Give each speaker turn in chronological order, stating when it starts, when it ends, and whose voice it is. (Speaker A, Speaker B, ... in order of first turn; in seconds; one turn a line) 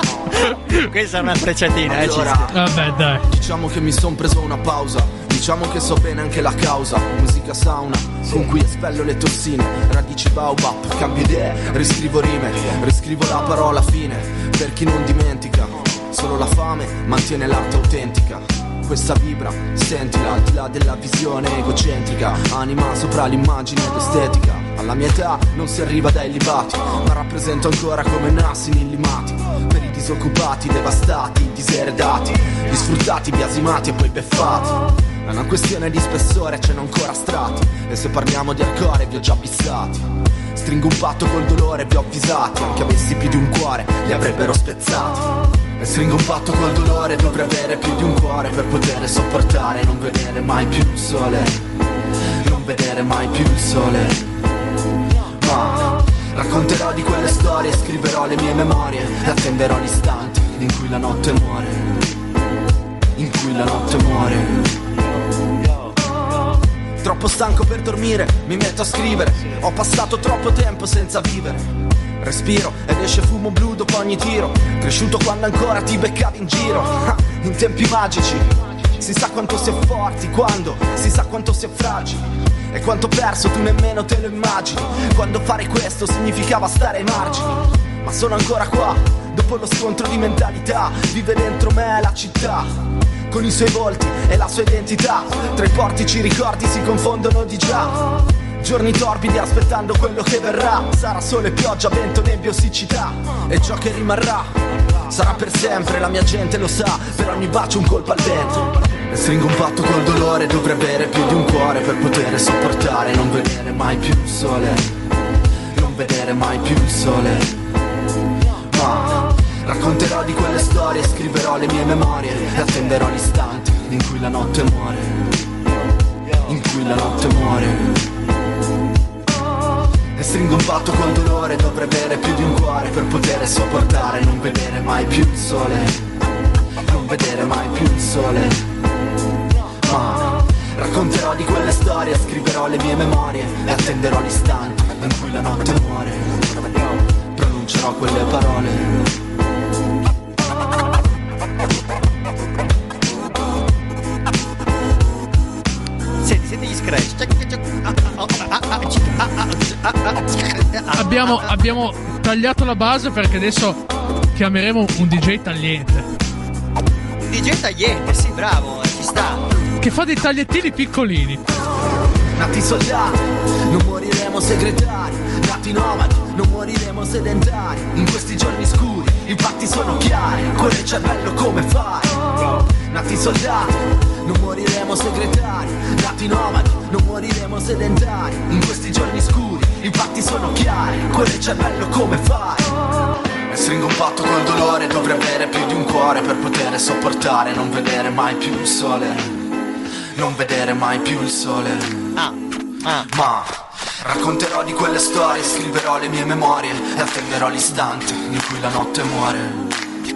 Speaker A: 0.7-2.5
Speaker B: 1.9-2.5
Speaker C: 2.5-3.2
Speaker B: 3.2-51.6
Speaker B: 52.4-54.3
Speaker B: 55.4-62.0
Speaker B: 63.2-64.7
Speaker B: 67.0-71.7
Speaker B: 72.2-78.5
Speaker B: 79.0-92.7
Speaker B: 93.3-104.5
Speaker B: 105.1-114.9
Speaker B: 115.7-117.6
Speaker B: 118.7-125.3
Speaker B: 126.4-128.1
Speaker B: 130.2-136.0
Speaker B: 136.8-138.6
Speaker B: 139.8-146.4
Speaker B: 147.3-149.1
Speaker A: 156.2-161.5
Speaker C: 161.0-163.8
Speaker C: 164.3-166.1
Speaker A: 167.2-169.4
Speaker C: 169.8-171.4
Speaker B: 172.3-173.2
Speaker B: 173.7-192.7
Speaker B: 193.5-199.3
Speaker B: 200.1-202.1
Speaker A: 202.2-203.1
Speaker B: 203.1-203.5
Speaker B: 204.0-209.6